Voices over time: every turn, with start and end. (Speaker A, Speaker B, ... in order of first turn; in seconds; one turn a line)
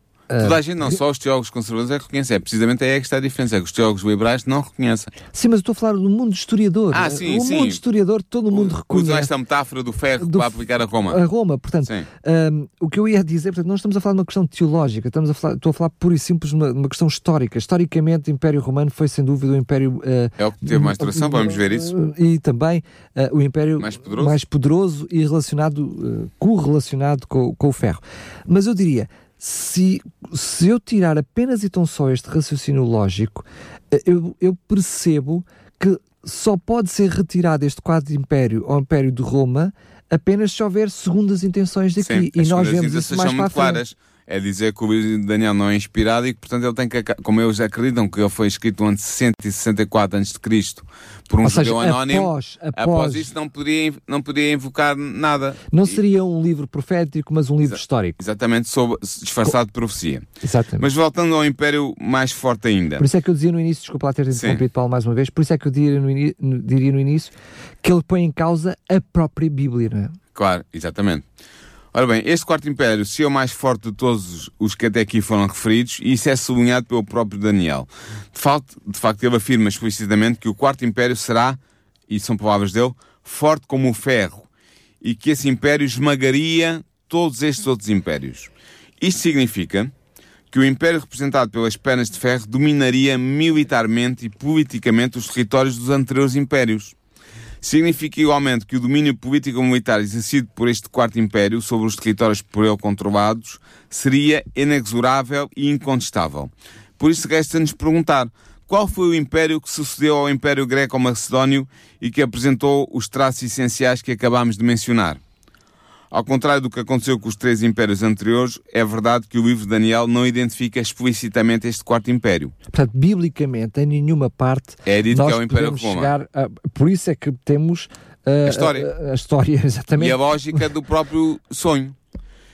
Speaker A: 0.3-0.6
Speaker B: 0.4-5.1
Speaker A: 5.3-9.3
Speaker B: 6.9-7.8
Speaker B: 8.5-11.2
Speaker A: 10.2-43.8
Speaker B: 20.4-21.9
Speaker B: 23.8-24.4
Speaker B: 42.0-55.9
Speaker A: 51.4-53.3
Speaker A: 55.7-58.2
Speaker B: 57.7-60.3
Speaker A: 60.4-60.9
Speaker B: 60.8-63.0
Speaker A: 63.0-67.3
Speaker B: 64.3-64.6
Speaker A: 67.8-70.2
Speaker B: 70.3-71.3
Speaker B: 71.9-84.5
Speaker B: 85.0-89.9
Speaker B: 90.5-97.0
Speaker B: 97.6-115.2
Speaker B: 116.1-122.5
Speaker A: 122.7-130.6
Speaker B: 124.9-126.1
Speaker B: 128.4-128.9
Speaker B: 130.0-132.0